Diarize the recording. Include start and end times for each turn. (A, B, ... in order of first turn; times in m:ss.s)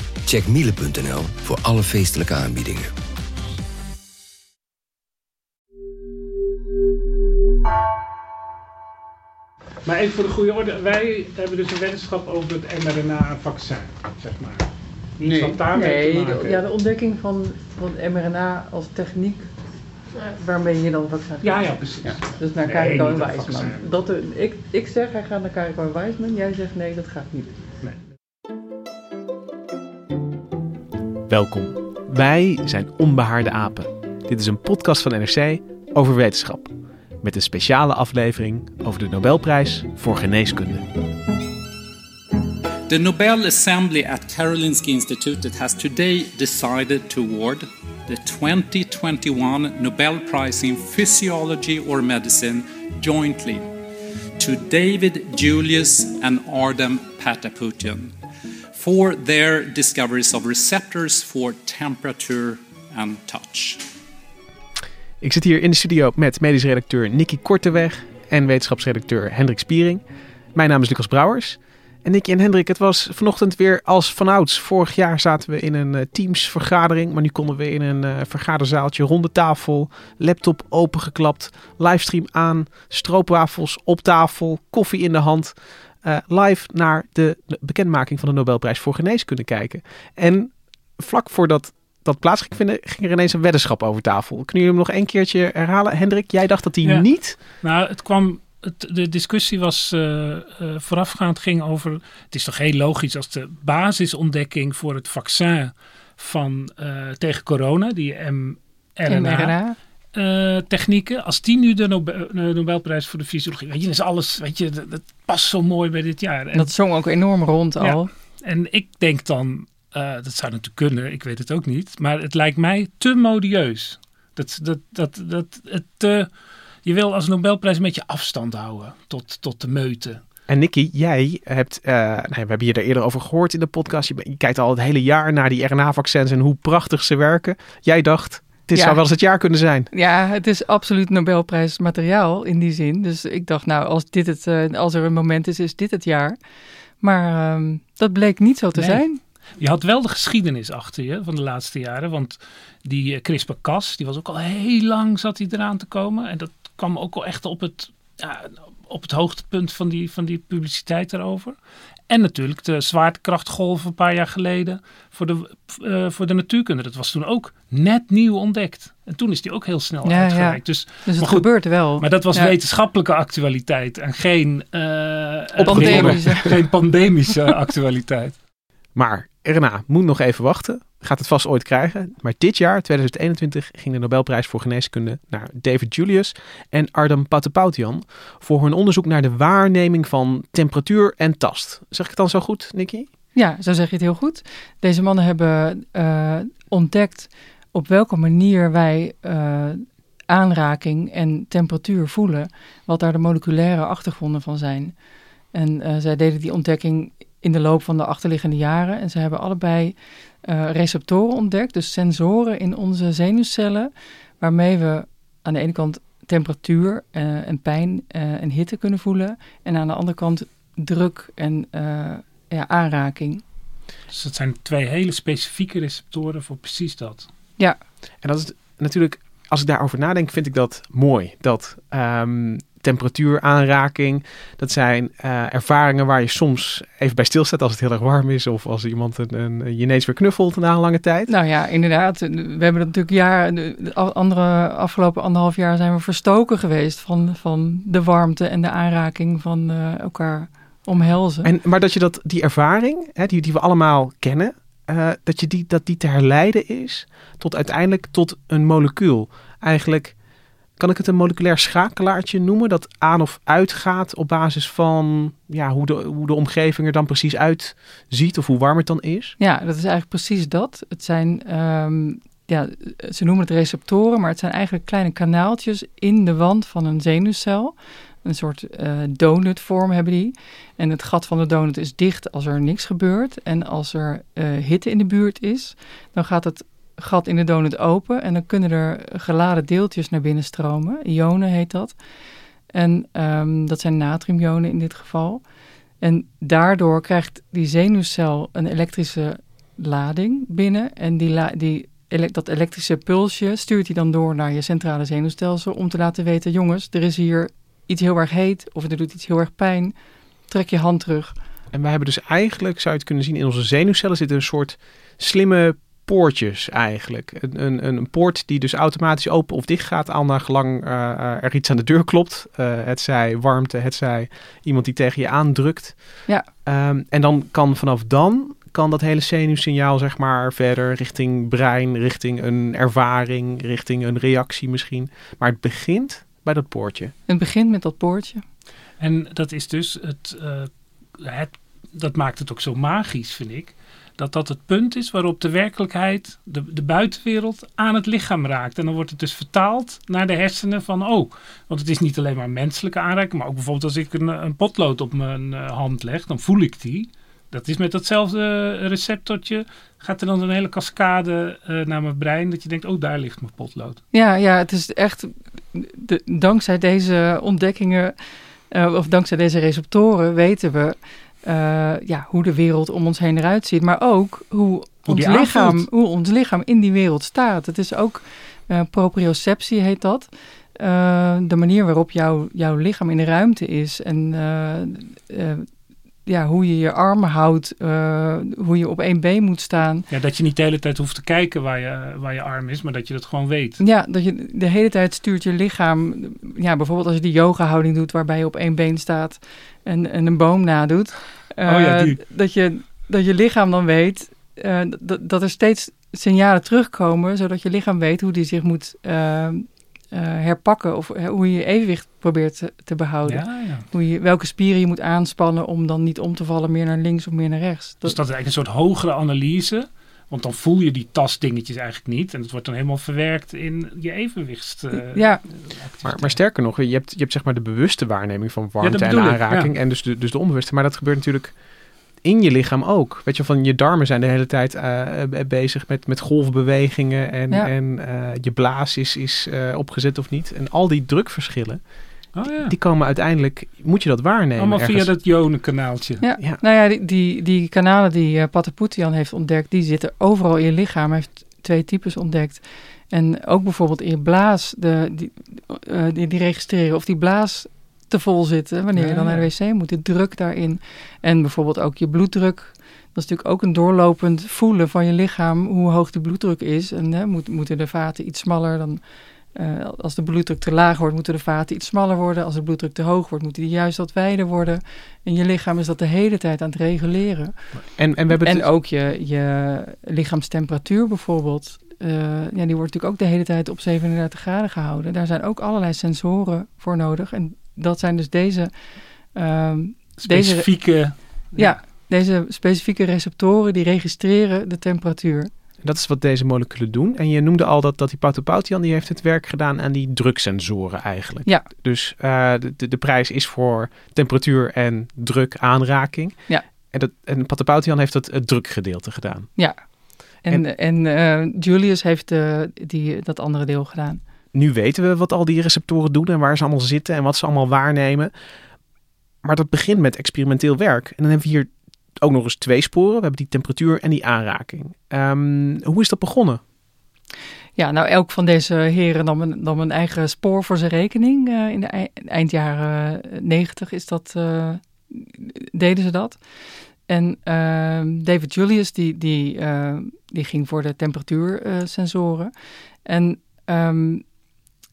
0:00.3-0:02.9 A
0:09.8-0:14.7 B
0:15.2-0:16.6 B
0:15.6-0:19.5 C
0:20.2-0:21.6 C
0:21.4-0:23.8 B
0:22.2-0:27.6 C
0:31.3-0:40.9 D
0:42.9-0:53.7 E
0:54.4-0:58.1 E
0:58.8-1:03.8 E
1:05.2-1:10.0 D
1:10.6-1:37.4 D
1:37.6-1:49.6 B
1:49.1-1:49.8 C
1:50.2-1:56.7 B
1:56.5-1:58.1 C
1:57.8-2:06.3 B
2:06.8-2:10.2 B
2:10.5-2:19.9 D
2:18.7-2:19.0 C
2:19.9-2:26.4 C
2:27.0-2:29.2 C
2:28.8-2:29.0 B
2:29.6-2:58.4 B
2:50.0-2:52.5 C
2:55.6-2:56.4 D
2:55.6-2:56.5 C
2:59.0-3:13.1 D
3:13.3-3:25.0 C
3:25.5-3:43.4 C
3:44.1-3:47.3 B
3:48.2-4:01.3 D
4:01.3-4:11.5 C
4:11.4-4:20.2 D
4:20.8-4:29.4 D
4:29.4-4:52.0 C
4:52.7-4:55.4 C
4:56.0-5:10.0 C
5:10.5-5:11.4 C
5:11.7-5:37.1 D
5:37.3-5:38.4 C
5:39.0-6:04.0 B
6:04.1-6:08.2 C
6:08.7-6:25.7 C
6:15.1-6:15.9 B
6:26.2-6:30.1 C
6:30.1-6:33.8 B
6:33.8-6:58.2 C
6:41.6-6:42.2 B
6:53.3-6:53.8 B
6:58.0-7:06.4 B
7:04.9-7:05.4 C
7:06.0-7:11.6 D
7:08.8-7:09.7 B
7:12.2-7:21.8 D
7:22.3-7:22.7 B
7:22.5-7:25.1 D
7:24.6-7:26.2 B
7:26.2-7:49.0 C
7:38.9-7:39.5 B
7:49.6-8:08.7 C
7:58.0-7:58.7 D
8:09.3-8:15.5 C
8:10.2-8:11.8 B
8:15.8-8:29.6 D
8:29.6-8:34.2 C
8:34.5-8:38.3 D
8:39.4-8:41.7 D
8:42.2-8:46.6 D
8:47.8-8:56.4 C
8:57.1-9:02.5 C
9:03.0-9:04.2 C